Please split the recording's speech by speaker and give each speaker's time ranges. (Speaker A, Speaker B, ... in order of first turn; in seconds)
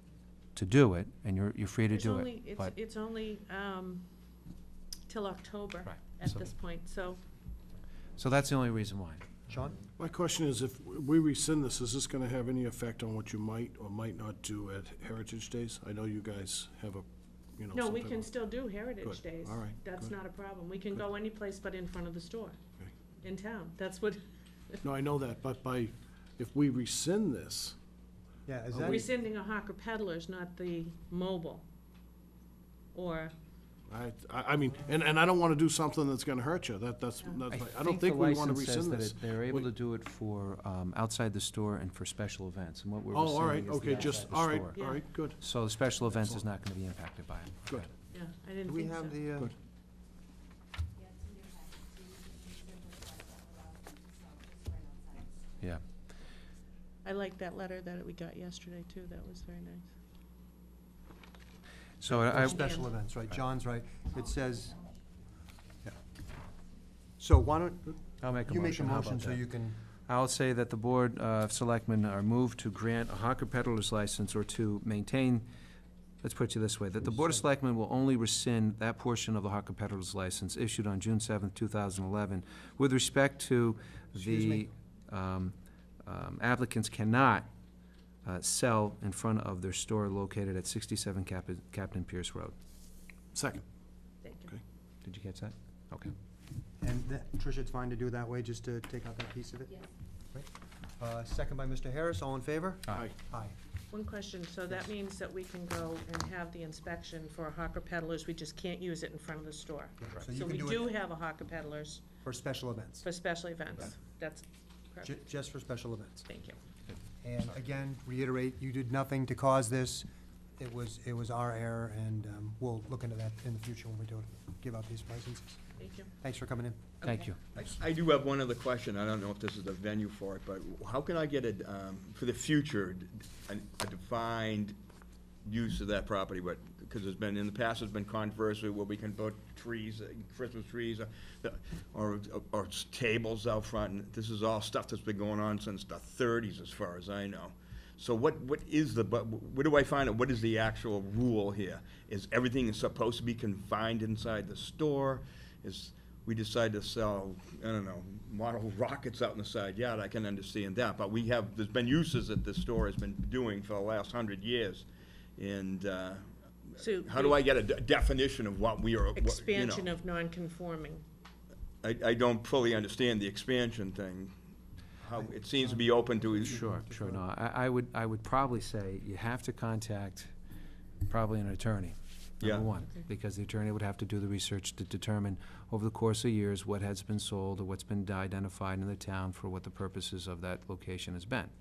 Speaker A: 0.6-2.7, 5.8-6.5, 8.2-9.4, 37.5-47.9, 62.0-62.8, 68.2-69.4, 70.1-75.5, 76.2-87.5, 88.2-92.5, 95.0-96.1, 127.0-127.4, 176.4-180.3, 181.1-191.5
Speaker B: 1.9-4.0, 5.1-7.2, 17.7-22.6, 23.2-24.8, 28.8-31.6, 32.9-33.3, 44.7-45.1, 48.1-49.2, 57.0-59.9, 94.2-94.6, 103.9-112.0, 113.0-115.1, 116.3-116.6, 125.8-126.1, 166.8-167.4, 169.2-171.0
Speaker C: 9.5-9.8, 28.4-29.1, 48.6-49.5, 62.0-64.8, 67.2-69.8, 84.1-84.7, 96.8-103.5, 110.0-110.9, 112.2-113.0, 115.0-116.3, 117.2-120.1, 120.6-125.6, 126.2-126.9, 175.2-177.2
Speaker D: 10.0-17.0, 17.6-20.2, 24.8-27.8, 33.9-39.7, 43.1-46.4, 93.3-93.6
Speaker E: 127.0-134.8, 135.4-169.9, 171.8-174.3, 175.0-176.6, 182.4-182.7